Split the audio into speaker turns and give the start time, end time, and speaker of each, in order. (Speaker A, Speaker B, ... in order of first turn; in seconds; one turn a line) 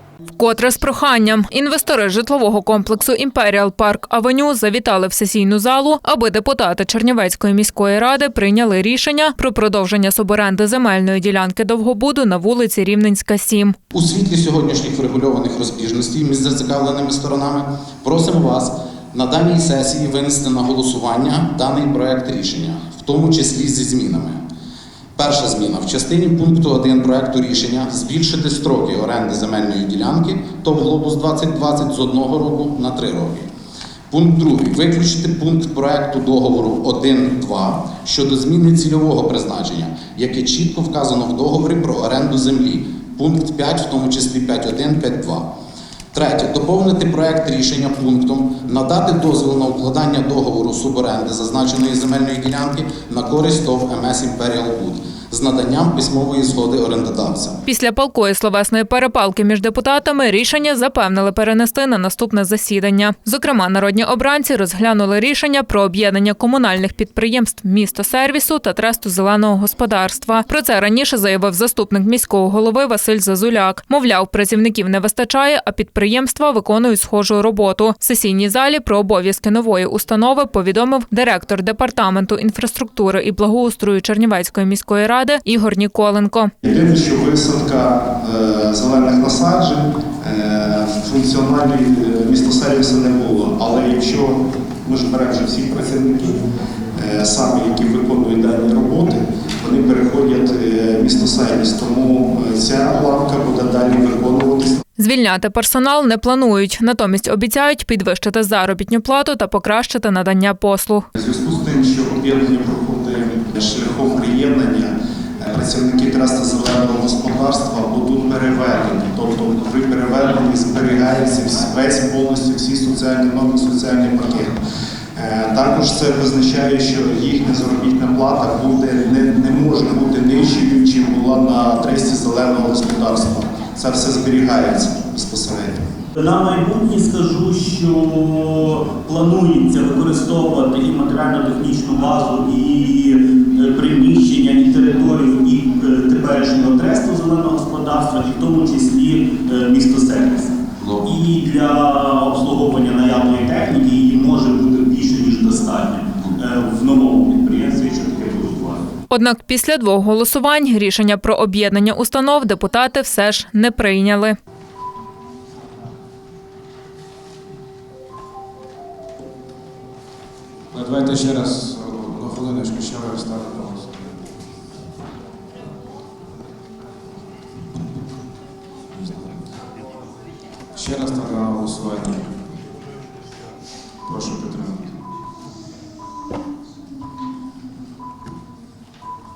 Speaker A: 0.4-13.8
Speaker B: 13.9-24.4
Speaker B: 25.2-33.5
Speaker B: 34.1-45.5
Speaker B: 46.1-57.6
Speaker A: 57.7-86.5
Speaker C: 86.6-96.4
Speaker C: 96.9-104.8
Speaker A: 105.0-111.1
Speaker C: 111.2-124.6
Speaker C: 125.2-135.8
Speaker D: 136.2-158.8
Speaker B: 150.8-151.1
Speaker A: 159.1-164.4
Speaker E: 170.7-174.1
Speaker E: 180.8-182.4
Speaker E: 184.1-184.9